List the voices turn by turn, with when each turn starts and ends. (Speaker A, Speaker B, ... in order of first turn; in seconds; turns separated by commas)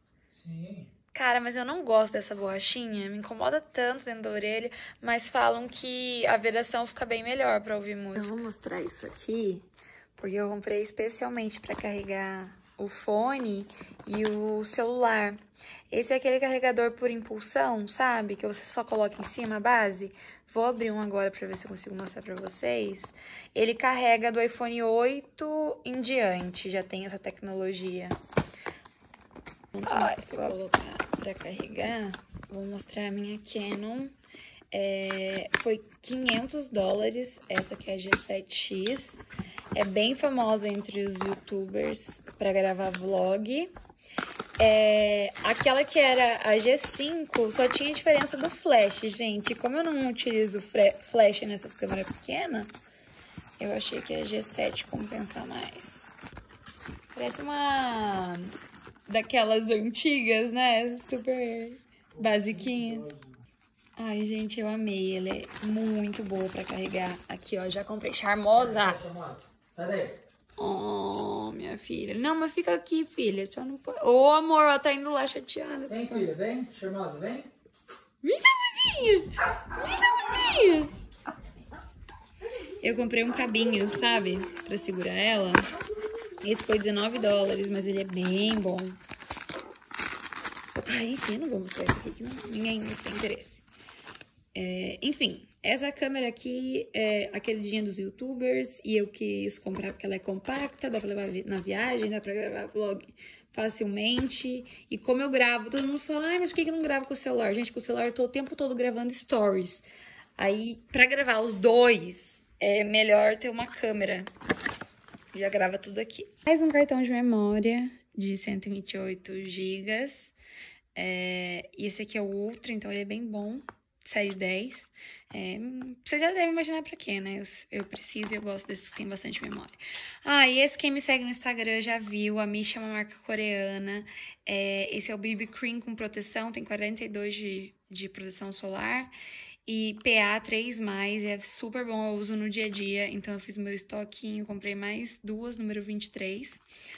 Speaker A: 0.3-0.9, Speaker B: 1.1-28.2, Speaker B: 29.7-34.1, Speaker B: 34.7-39.2, Speaker B: 39.7-43.7, Speaker B: 44.6-52.7, Speaker B: 53.6-56.1, Speaker B: 57.1-58.5, Speaker B: 59.0-63.1, Speaker A: 62.1-63.4, Speaker B: 64.0-69.0, Speaker A: 68.5-70.2, Speaker B: 70.6-76.3, Speaker A: 75.9-77.5, Speaker B: 78.2-80.9, Speaker B: 82.8-85.7, Speaker B: 86.4-89.0, Speaker B: 90.8-93.6, Speaker B: 94.5-109.8, Speaker B: 110.4-114.3, Speaker B: 115.3-120.3, Speaker B: 120.9-139.1, Speaker B: 139.7-146.6